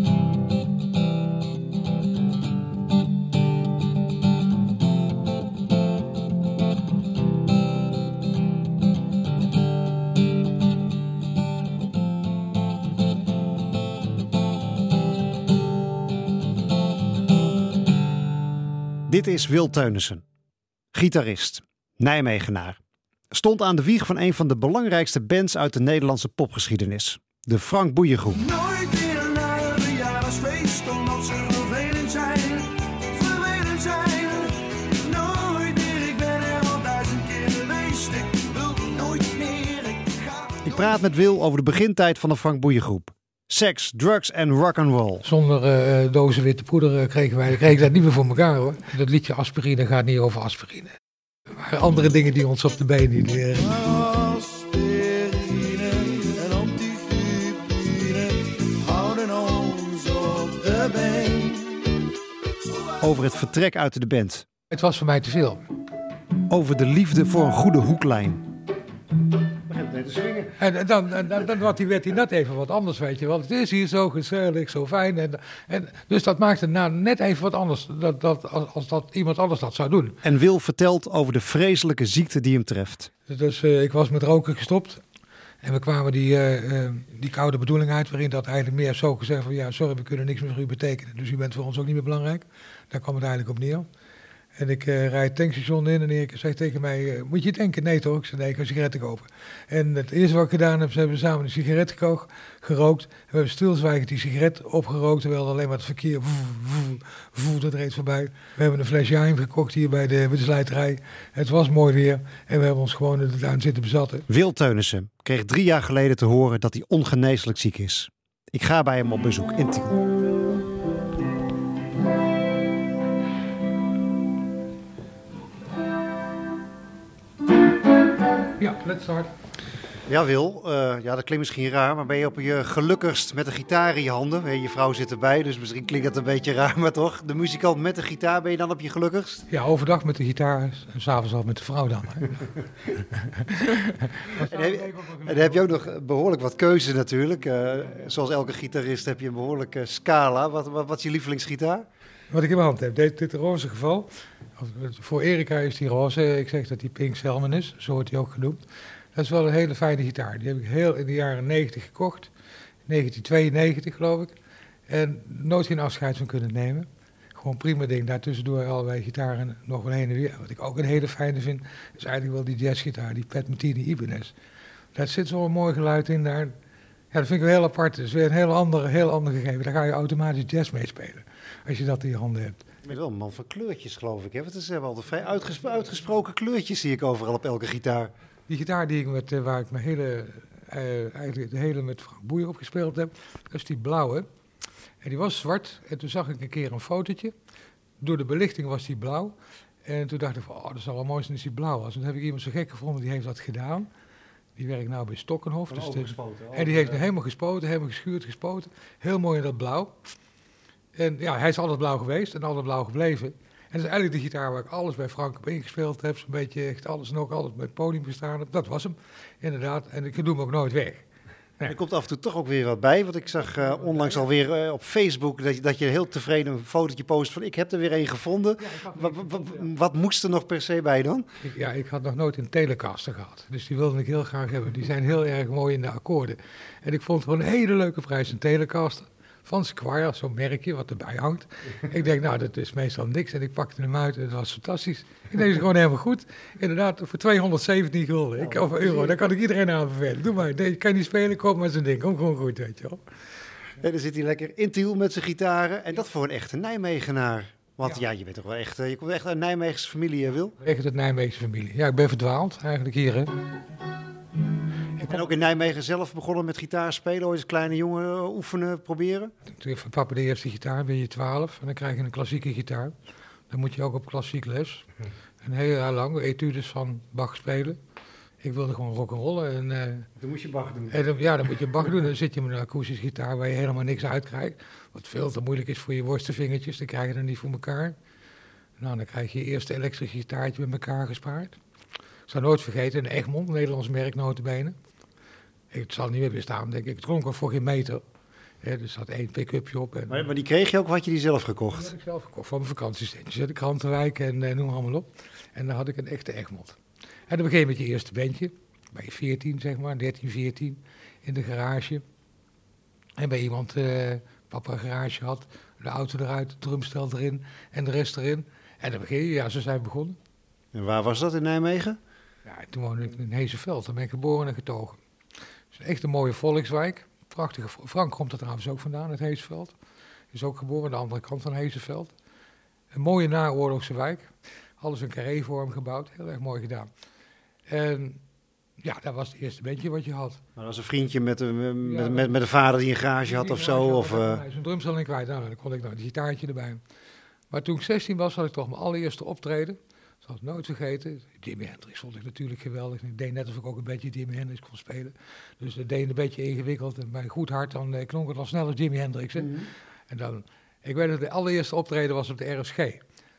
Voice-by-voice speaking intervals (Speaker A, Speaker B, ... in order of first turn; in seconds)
Speaker A: 19.1-20.2, 20.9-22.8, 23.3-28.4, 40.6-45.2, 63.0-64.5, 66.5-68.4, 69.7-70.5, 80.2-83.1, 114.3-120.0, 130.1-139.5, 144.3-151.9, 182.8-188.1, 205.7-207.1, 221.7-231.3, 248.4-249.2, 253.8-260.6, 265.1-269.3, 280.2-281.0, 300.1-301.9, 320.7-322.0, 340.6-344.4, 359.4-359.7
Speaker B: 28.3-40.9, 53.6-61.7
Speaker C: 45.2-50.9, 51.5-53.7, 64.7-65.6, 70.6-80.2, 83.3-85.0, 85.6-93.9, 94.6-114.3, 128.6-129.3, 139.5-142.5, 143.1-145.9, 152.3-158.6, 159.2-162.3, 162.9-164.3, 164.9-174.3, 174.9-176.6, 177.1-182.7, 188.5-194.3, 195.0-197.3, 198.0-203.9, 204.6-210.0, 211.0-221.1, 223.9-224.2, 228.6-229.7, 231.4-253.0, 260.6-263.3, 265.0-265.2, 269.4-272.9, 273.5-274.9, 275.4-277.8, 278.4-280.1, 280.9-287.9, 288.8-291.6, 292.3-294.8, 295.7-298.0, 298.6-300.3, 301.7-312.0, 313.2-320.2, 322.4-325.0, 325.7-329.8, 330.3-332.1, 332.9-336.9, 337.7-338.2, 338.8-340.4, 341.8-342.3, 343.2-346.8, 347.5-359.5, 360.1-363.0